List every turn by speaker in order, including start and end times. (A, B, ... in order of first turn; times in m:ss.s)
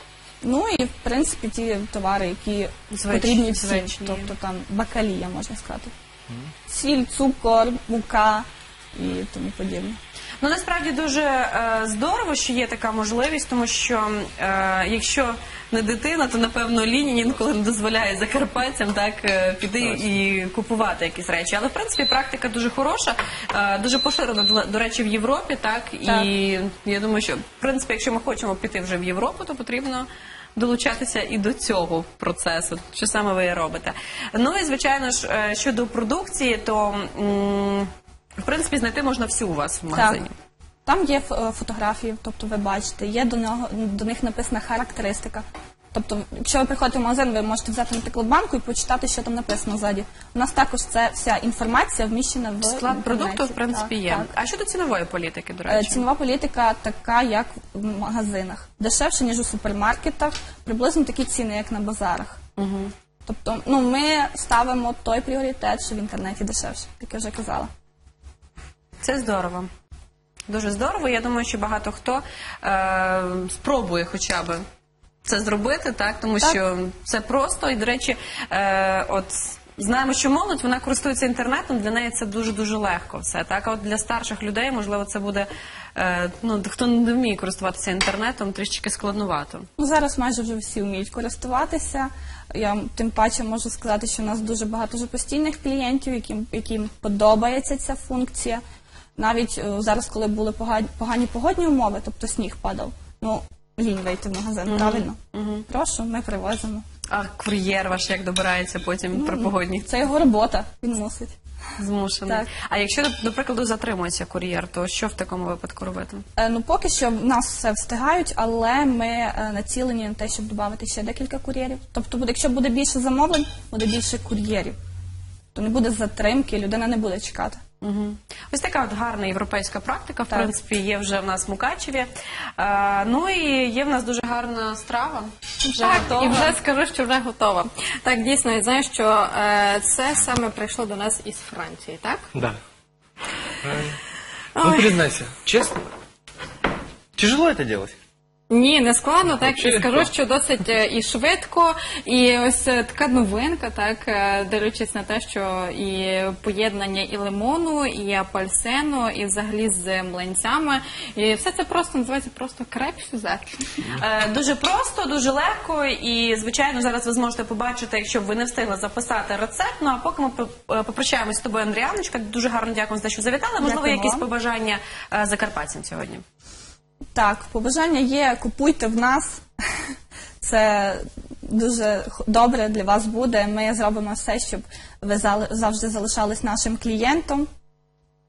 0:00.4-0:05.9 A
0:02.9-0:04.3 B
0:06.7-0:10.0 A
0:10.4-0:40.3 B
0:39.9-0:40.2 A
0:40.8-0:54.3 A
0:52.6-0:56.0 B
0:55.7-1:02.4 A
1:02.6-1:02.9 B
1:03.2-1:07.7 A
1:09.0-1:09.7 B
1:10.5-1:14.6 B
1:15.2-1:29.7 B
1:29.8-1:38.6 A
1:39.2-1:46.8 A
1:44.7-1:45.6 B
1:47.1-1:49.9 B
1:49.1-1:51.3 A
1:51.8-1:56.2 B
1:56.4-2:04.8 A
2:05.5-2:07.6 A
2:07.8-2:16.5 B
2:15.7-2:22.2 C
2:23.6-2:24.0 D
2:24.6-2:25.0 C
2:24.6-2:25.8 D
2:27.2-2:27.9 D
2:28.5-2:43.4 C
2:29.3-2:30.1 D
2:43.8-2:56.2 B
2:53.6-2:54.3 A
2:57.1-3:07.5 A